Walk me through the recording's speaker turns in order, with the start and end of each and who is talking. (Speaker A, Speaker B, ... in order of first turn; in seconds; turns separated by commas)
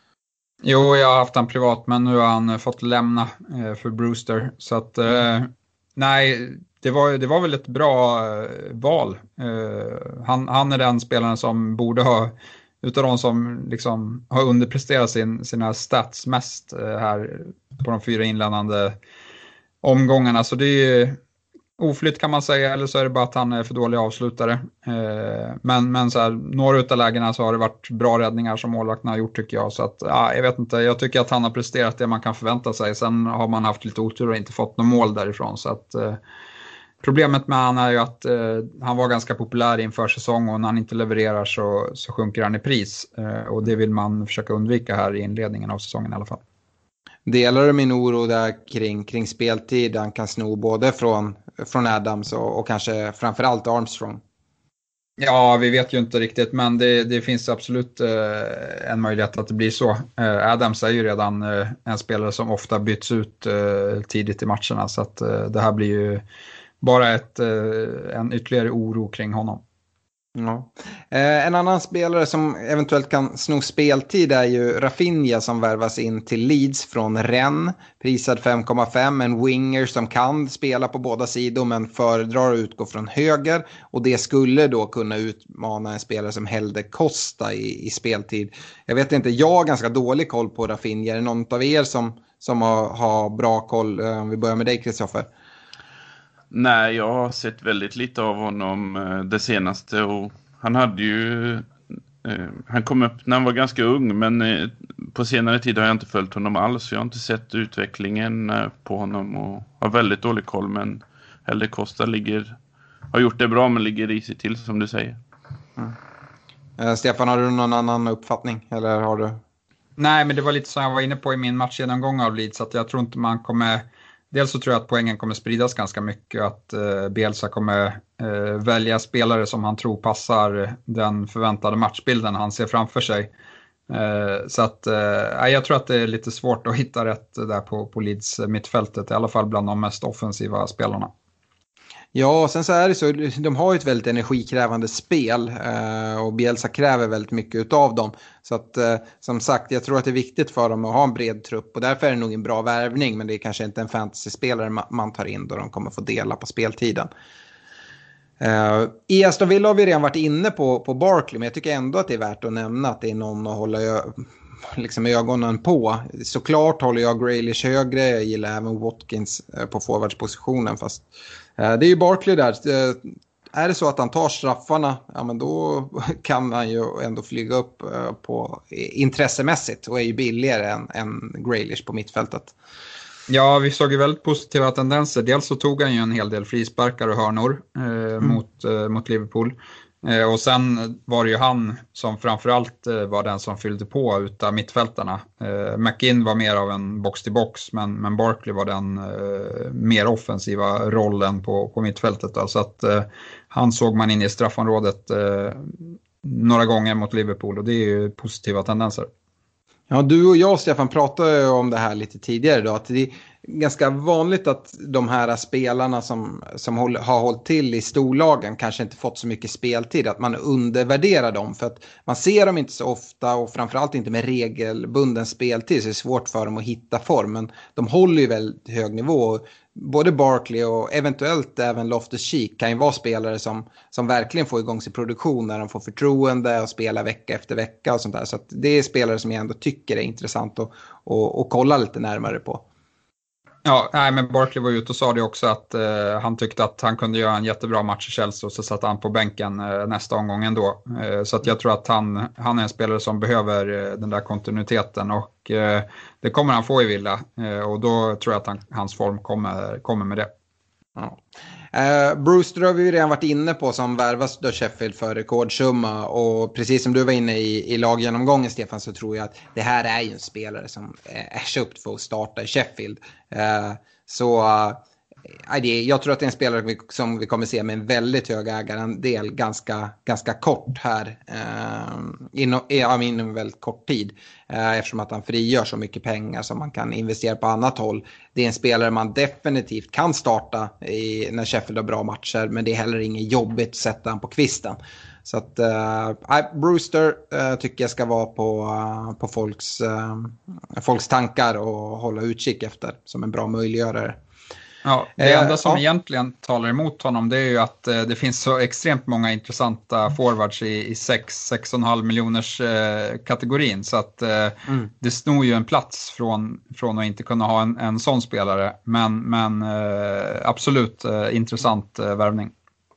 Speaker A: 0.6-19.0, Speaker A: 19.8-21.2, Speaker A: 21.8-36.2, Speaker A: 37.0-46.4, Speaker B: 47.3-54.2, Speaker A: 55.2-66.2, Speaker A: 66.8-69.6, Speaker B: 70.4-95.3, Speaker C: 96.5-101.7, Speaker C: 102.2-112.5, Speaker C: 113.1-115.2, Speaker B: 116.8-119.4, Speaker A: 120.0-133.3, Speaker A: 133.9-141.1, Speaker B: 142.1-157.1, Speaker B: 158.4-171.1, Speaker B: 171.6-182.5, Speaker A: 183.3-209.1, Speaker B: 209.9-242.6, Speaker A: 243.6-260.3, Speaker B: 260.9-261.2, Speaker B: 261.7-274.8, Speaker B: 275.5-304.2, Speaker A: 304.8-322.5, Speaker B: 305.2-305.8